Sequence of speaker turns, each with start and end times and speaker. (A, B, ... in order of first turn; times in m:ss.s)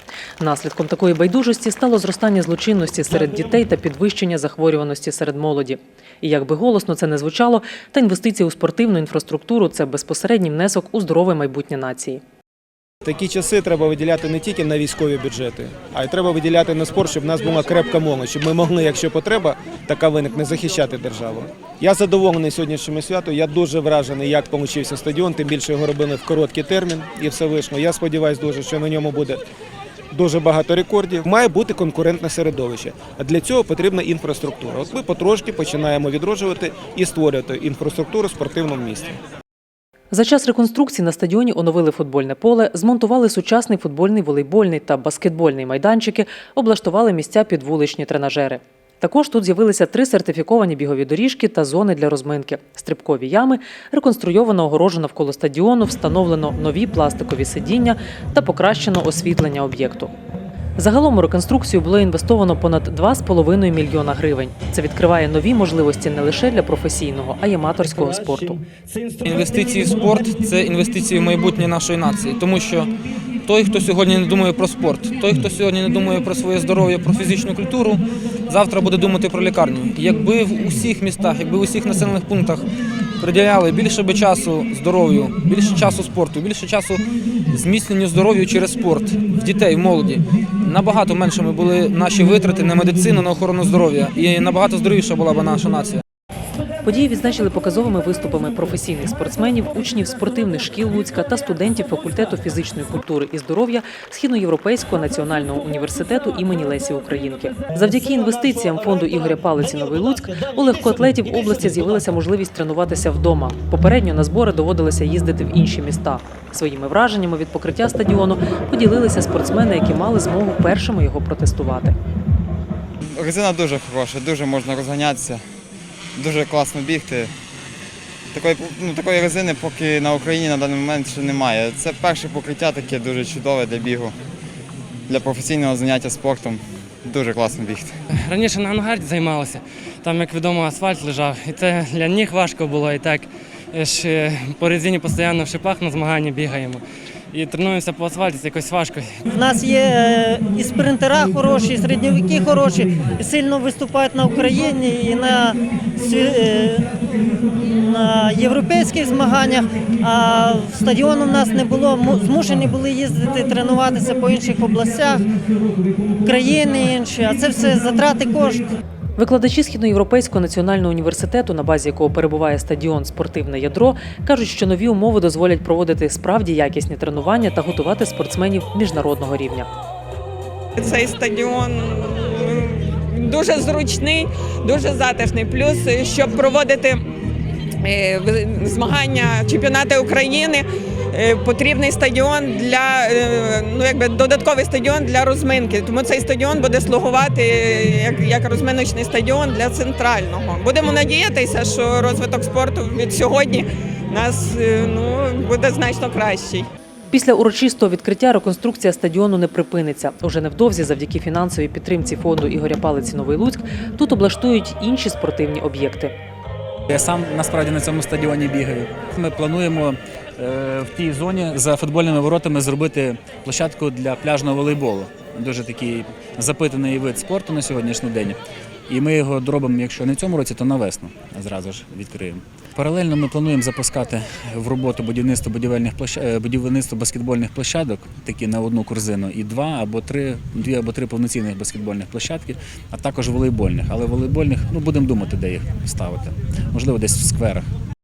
0:00.4-0:12.2 A
0:13.0-0:29.4 B
0:30.1-0:39.1 B
0:40.1-1:00.1 A
1:00.8-1:08.6 A
1:09.2-1:12.9 C
1:13.4-1:22.6 C
1:23.2-1:36.0 C
1:36.8-2:02.0 A
2:03.1-2:05.4 D
2:06.1-2:07.3 D
2:08.3-2:14.1 D
2:15.1-2:18.0 D
2:18.2-2:29.1 E
2:29.3-2:36.9 F
2:37.5-2:45.2 F
2:46.2-2:48.6 F
2:49.2-2:59.7 A
3:00.8-3:07.0 G
3:07.8-3:26.7 G
3:27.1-3:36.1 A
3:36.9-3:48.4 H
3:48.9-4:07.7 H